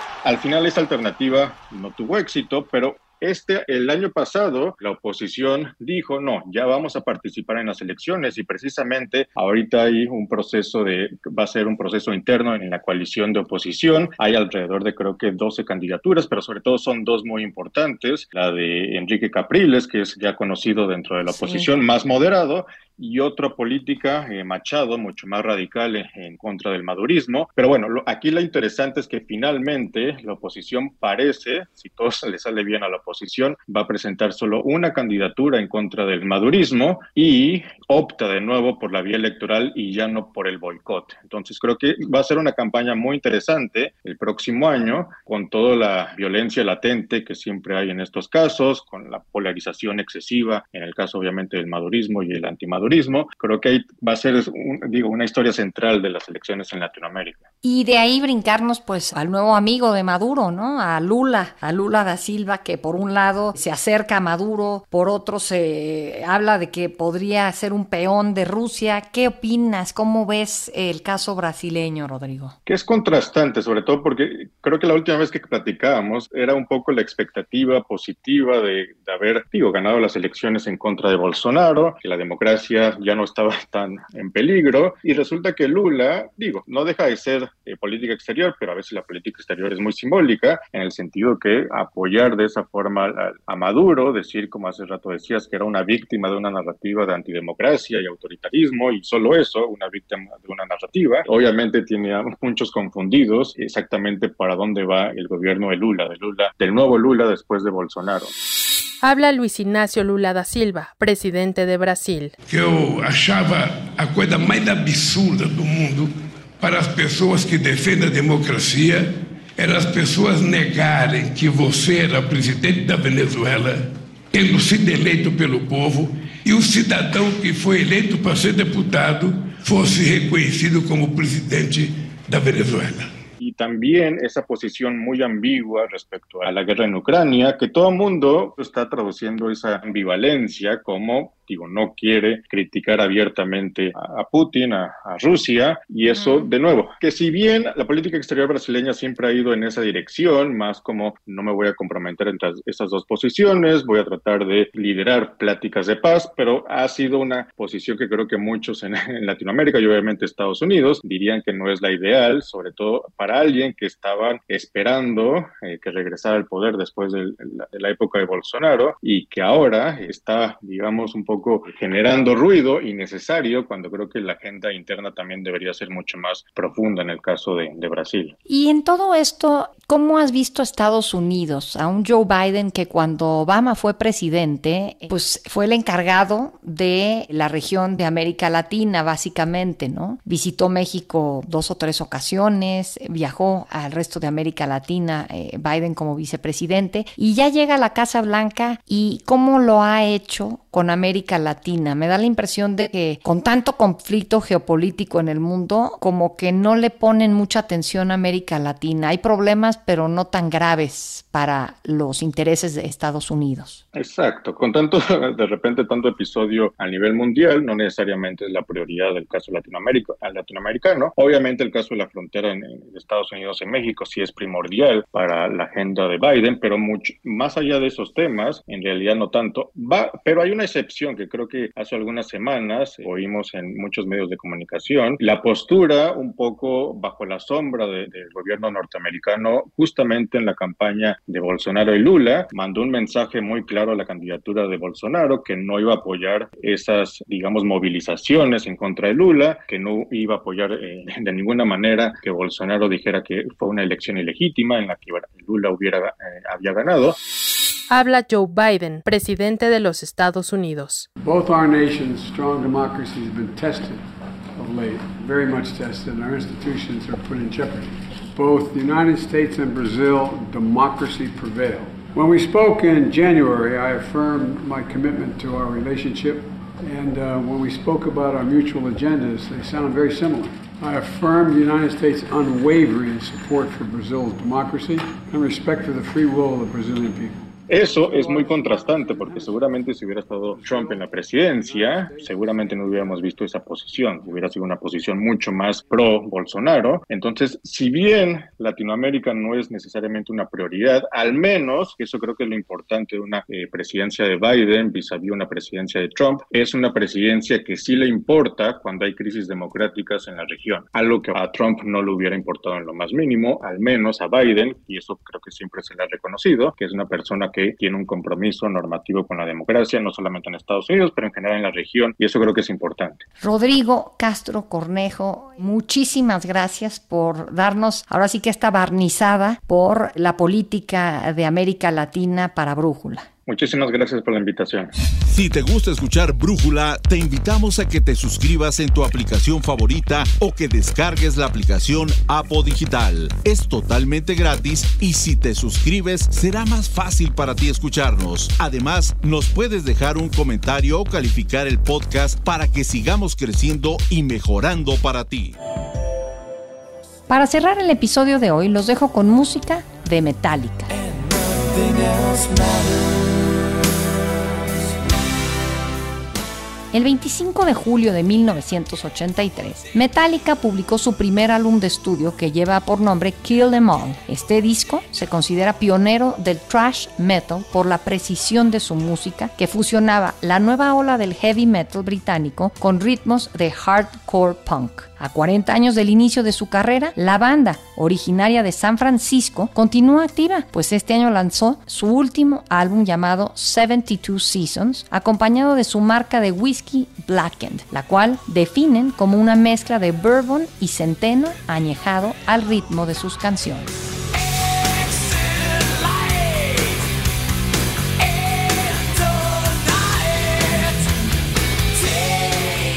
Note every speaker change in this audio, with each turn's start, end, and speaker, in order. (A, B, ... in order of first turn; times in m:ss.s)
0:00.2-0:57.4 A
0:21.3-0:21.7 B
0:57.6-1:12.6 B
1:12.7-1:48.3 A
1:49.0-1:52.3 C
1:52.5-2:13.1 D
2:13.4-2:58.4 A
2:26.1-2:26.5 B
2:58.5-3:33.8 B
3:33.9-4:17.2 A
4:17.9-4:21.1 C
4:21.2-4:49.7 E
4:47.7-5:23.2 A
4:50.5-4:53.4 E
5:23.4-5:33.3 B
5:33.5-5:34.9 A
5:35.3-5:55.6 F
5:57.3-6:00.9 B
6:06.9-6:43.9 B